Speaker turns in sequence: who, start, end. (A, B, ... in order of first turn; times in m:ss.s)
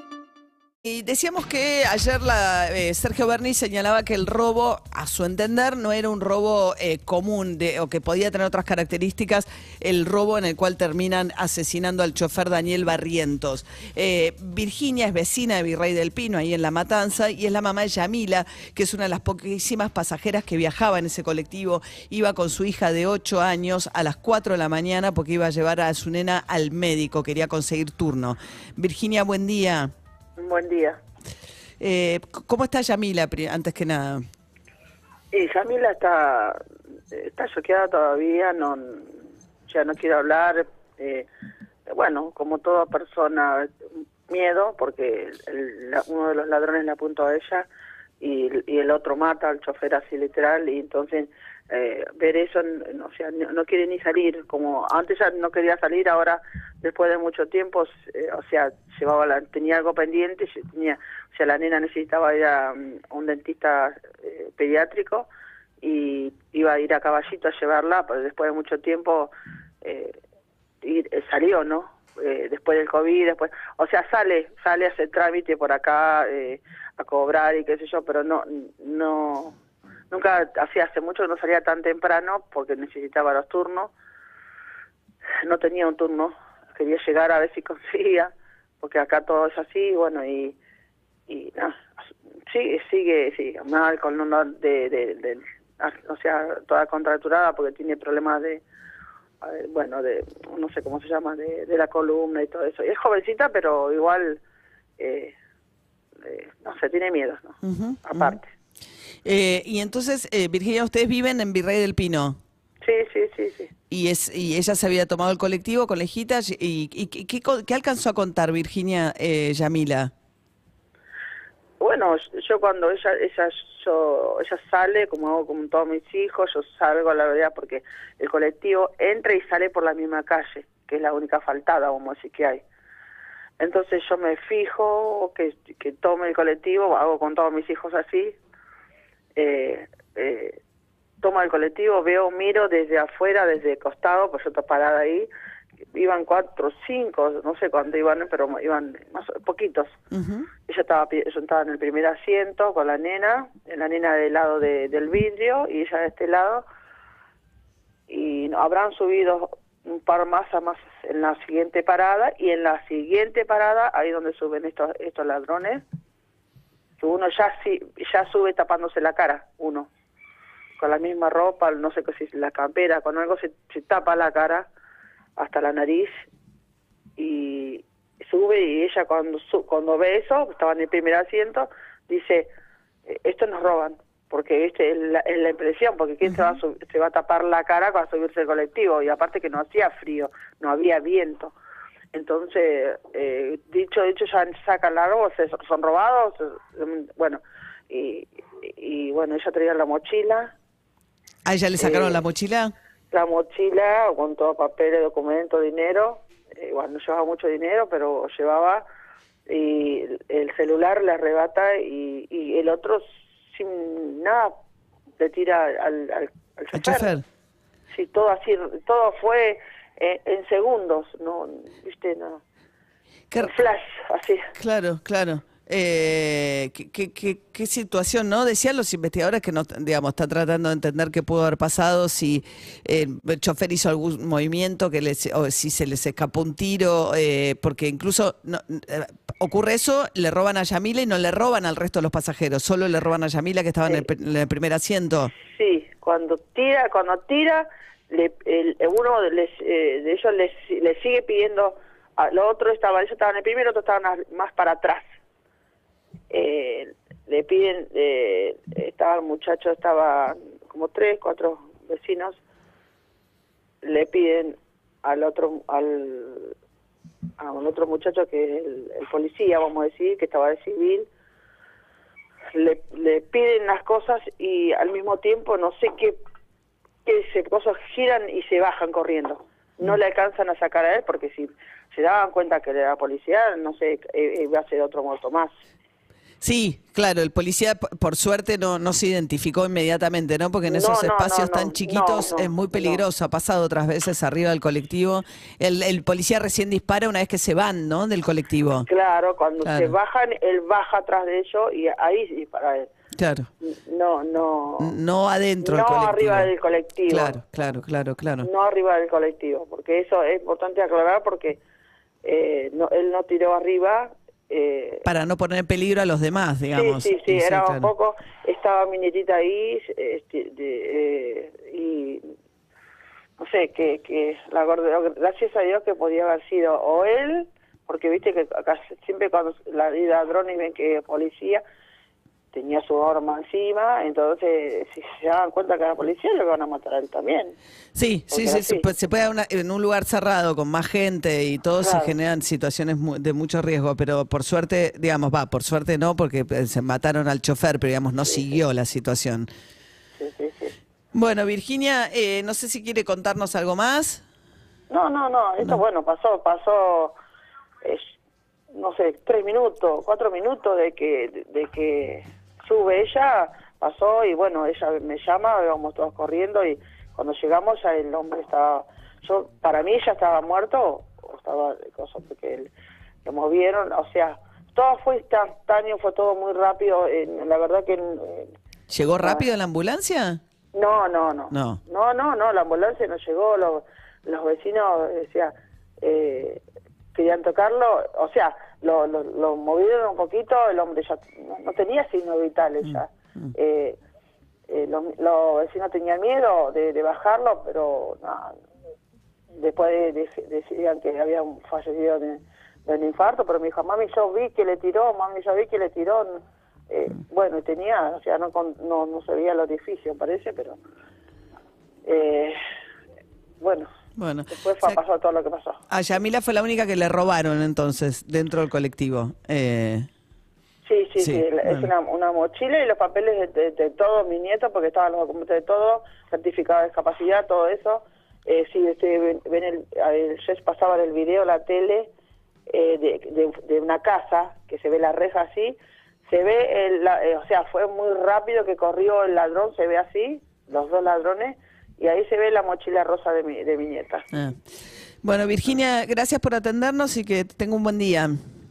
0:00.8-0:29.9 A
0:30.4-0:31.0 B
0:31.8-0:34.2 A
0:35.3-0:41.3 B
0:41.9-0:43.7 B
0:44.3-0:47.7 B
0:48.2-1:05.3 B
1:05.8-1:10.2 B
1:10.8-1:19.6 B
1:20.1-1:23.9 B
1:25.4-1:30.6 B
1:31.3-1:31.9 B
1:32.5-1:38.6 B
1:39.4-1:44.4 B
1:45.0-1:45.4 B
1:46.2-1:48.5 B
1:47.6-1:48.4 A
1:49.2-1:52.4 A
1:52.8-1:53.7 B
1:53.9-2:00.1 A
2:01.8-2:12.6 B
2:13.6-2:18.4 B
2:19.4-2:20.6 B
2:21.2-2:25.3 B
2:25.9-2:30.0 B
2:30.1-2:30.5 A
2:30.7-2:36.6 B
2:38.1-2:45.8 B
2:47.0-2:49.9 B
2:50.8-2:54.7 B
2:55.4-2:56.3 B
2:57.2-3:02.5 B
3:03.1-3:11.6 B
3:06.2-3:06.6 A
3:12.1-3:20.5 B
3:21.4-3:22.7 A
3:21.8-3:22.2 B
3:23.1-3:28.8 B
3:29.5-3:34.5 B
3:35.2-3:37.1 B
3:36.7-3:37.2 A
3:37.9-3:42.4 B
3:43.3-3:43.7 A
3:43.4-3:44.5 B
3:44.6-4:05.3 A
4:05.5-4:15.1 B
4:16.3-4:22.4 B
4:23.8-4:26.6 B
4:27.4-4:31.1 B
4:32.5-4:36.2 B
4:37.0-4:45.5 B
4:46.4-4:58.9 A
4:50.7-4:53.0 B
4:58.9-5:02.9 B
4:59.6-5:00.0 A
5:03.2-5:03.5 A
5:03.6-5:05.0 B
5:04.8-5:06.5 A
5:05.6-5:07.4 B
5:07.1-5:08.5 A
5:08.4-5:11.6 B
5:12.2-5:15.1 B
5:15.0-5:17.9 A
5:16.7-5:22.4 B
5:23.4-5:31.6 B
5:32.5-5:37.6 B
5:38.0-5:49.5 A
5:38.3-5:38.9 B
5:41.8-5:42.2 B
5:50.2-5:50.8 B
5:51.1-5:54.2 A
5:54.9-5:57.2 B
5:57.8-5:58.1 B
5:58.7-6:12.7 B
6:13.2-6:18.5 B
6:18.9-6:20.4 A
6:20.7-6:26.6 B
6:21.5-6:21.8 A
6:27.1-6:34.0 B
6:34.7-6:38.6 B
6:39.6-6:50.8 B
6:52.0-6:52.6 B
6:53.6-6:53.9 B
6:54.2-6:55.0 A
6:54.5-6:55.8 B
6:55.9-7:00.1 A
7:00.8-7:12.1 B
7:01.2-7:01.9 A
7:12.7-7:24.3 B
7:24.3-7:24.6 A
7:25.2-7:28.4 A